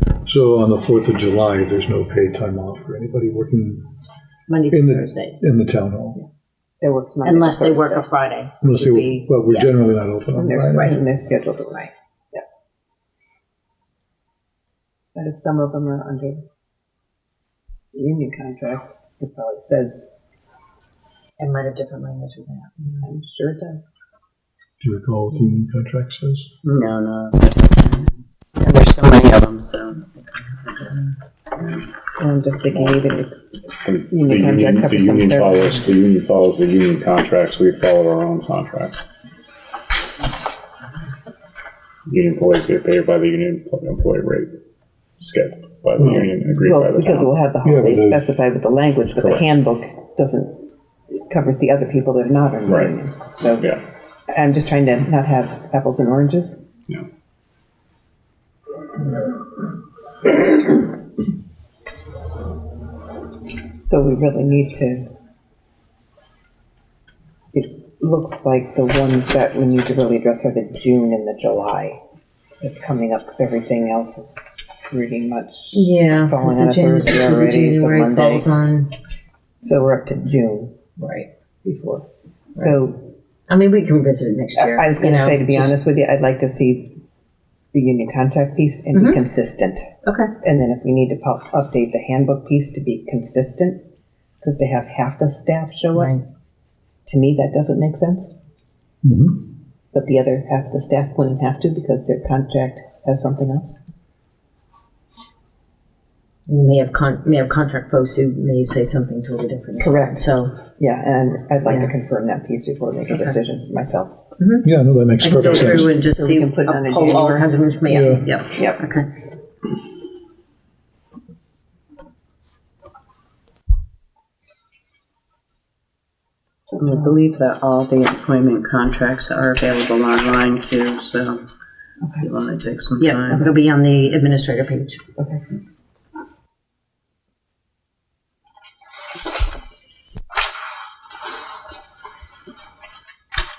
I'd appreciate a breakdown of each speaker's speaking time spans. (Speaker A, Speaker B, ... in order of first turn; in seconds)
Speaker A: 0.2-3.9, 4.7-6.2, 8.6-11.0, 24.8-26.5, 46.0-46.3, 47.6-48.3, 99.0-99.4, 114.6-116.0, 117.9-118.2
Speaker B: 4.5-5.4, 7.2-9.7, 21.4-23.1, 75.7-78.9, 81.0-81.3, 83.5-85.8, 88.9-89.2, 90.0-90.3, 95.9-96.2, 106.5-110.6, 111.6-111.9, 113.1-113.4, 114.4-119.1, 133.2-135.0
Speaker C: 6.8-8.1, 10.3-12.4, 15.1-16.4, 17.9-20.3, 23.0-23.9, 32.2-33.4, 34.1-35.6, 46.6-53.7, 54.3-56.6, 63.9-65.1, 67.5-72.0, 72.6-78.5, 79.6-80.8, 81.6-83.0, 84.5-87.0, 87.7-89.9, 90.4-93.8, 94.4-96.1, 97.0-98.3, 99.9-103.8, 109.8-114.2, 116.0-117.5, 118.2-118.8
Speaker D: 26.6-30.0, 30.6-31.9, 126.8-131.4, 132.2-133.5
Speaker E: 32.7-33.0, 33.8-39.0, 42.0-44.5, 45.2-47.3, 49.2-49.4, 52.6-53.8